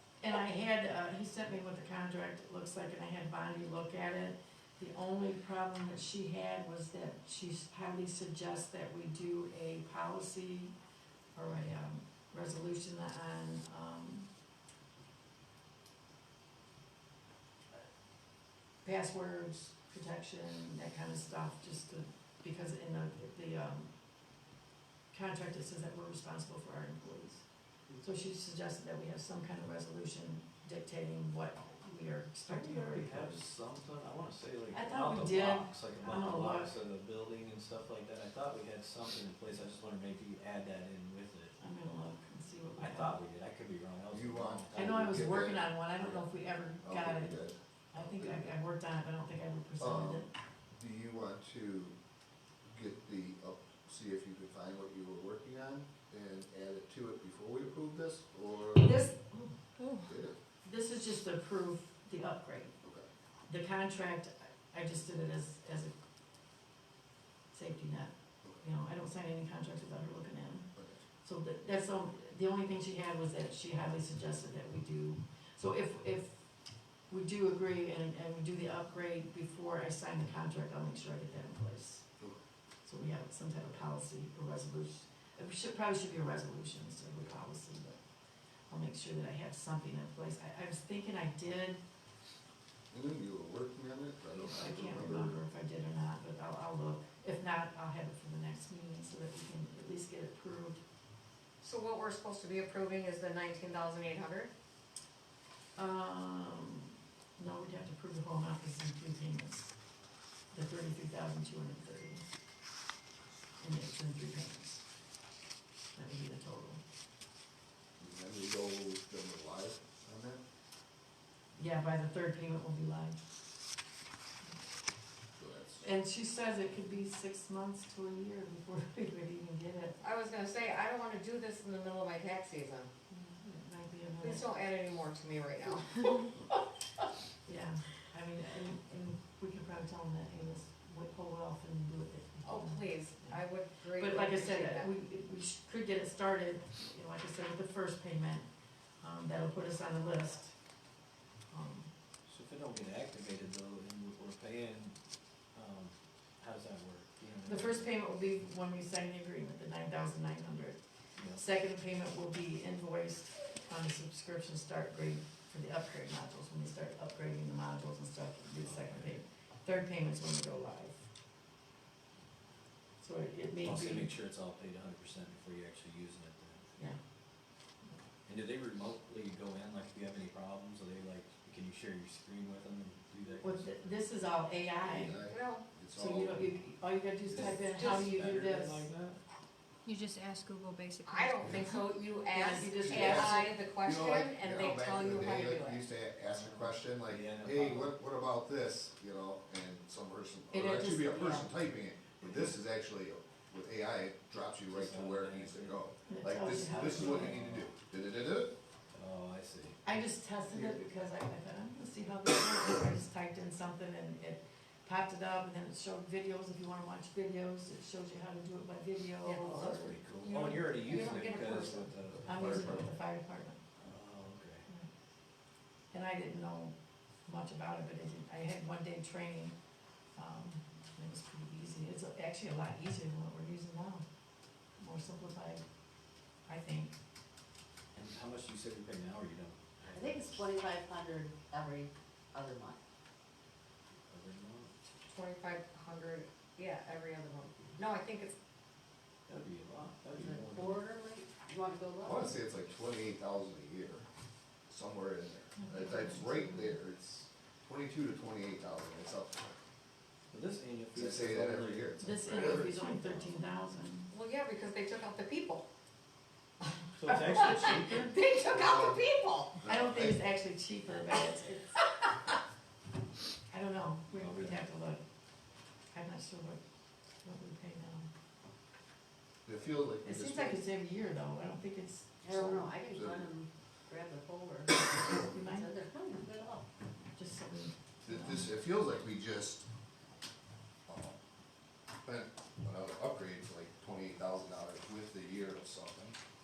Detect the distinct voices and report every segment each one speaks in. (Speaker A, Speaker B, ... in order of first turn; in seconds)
Speaker A: 0.2-10.7, 11.3-14.3, 18.8-23.9, 25.1-27.4, 28.0-33.4, 34.7-36.7, 41.6-43.2, 44.7-50.3, 58.8-59.6, 60.6-62.7, 63.5-65.9, 67.5-70.7, 71.2-76.4, 77.1-82.0, 82.8-88.0, 88.7-91.8, 94.3-100.8, 105.8-109.7, 110.5-112.2, 113.6-114.8, 115.9-116.8, 121.5-123.2, 125.8-130.0, 133.1-134.5, 137.4-143.4, 143.9-148.4, 149.0-150.5, 151.5-151.9, 157.4-160.8, 161.3-171.0, 173.0-174.1, 183.4-185.2, 185.9-188.9, 192.3-193.6, 200.5-201.6, 206.1-207.4, 209.8-220.0, 222.2-223.6, 225.9-226.7, 227.2-229.5, 230.1-234.0, 234.8-235.6, 236.4-236.9, 255.6-256.7, 262.0-264.1, 269.6-271.8, 273.5-275.0, 275.9-276.6, 277.2-278.1, 280.0-282.7, 285.0-285.7, 287.1-288.5
Speaker B: 32.5-41.5, 42.8-45.3, 152.2-154.9, 155.5-157.9, 161.2-161.4, 168.6-169.2, 173.6-176.7, 178.2-183.9, 187.3-189.2, 196.3-197.9, 204.7-205.8, 206.5-207.7, 208.9-209.8, 219.4-222.9, 223.8-224.7, 237.9-240.4, 244.1-244.7, 249.3-250.8, 260.3-263.2, 266.9-268.1, 274.1-274.6
Speaker C: 44.1-46.2, 46.8-48.5, 49.8-52.0, 52.7-59.0, 60.1-60.3, 70.8-71.0, 92.9-95.4, 118.0-120.4, 125.4-125.8, 184.8-186.6, 192.8-208.5, 210.5-210.9, 222.3-222.8, 252.0-254.0, 254.7-259.6, 260.9-262.8, 268.5-269.0, 269.6-270.2, 279.4-280.6, 282.9-283.3, 288.0-289.6, 290.9-291.2, 292.0-296.2
Speaker D: 101.6-104.5, 130.0-132.9, 134.2-136.3, 142.4-144.9, 185.3-185.7, 187.7-188.0, 191.1-195.8, 219.2-221.9, 245.1-248.3, 264.1-265.6, 267.1-269.6
Speaker E: 189.8-191.9
Speaker F: 239.9-242.8, 250.1-252.3, 282.2-286.7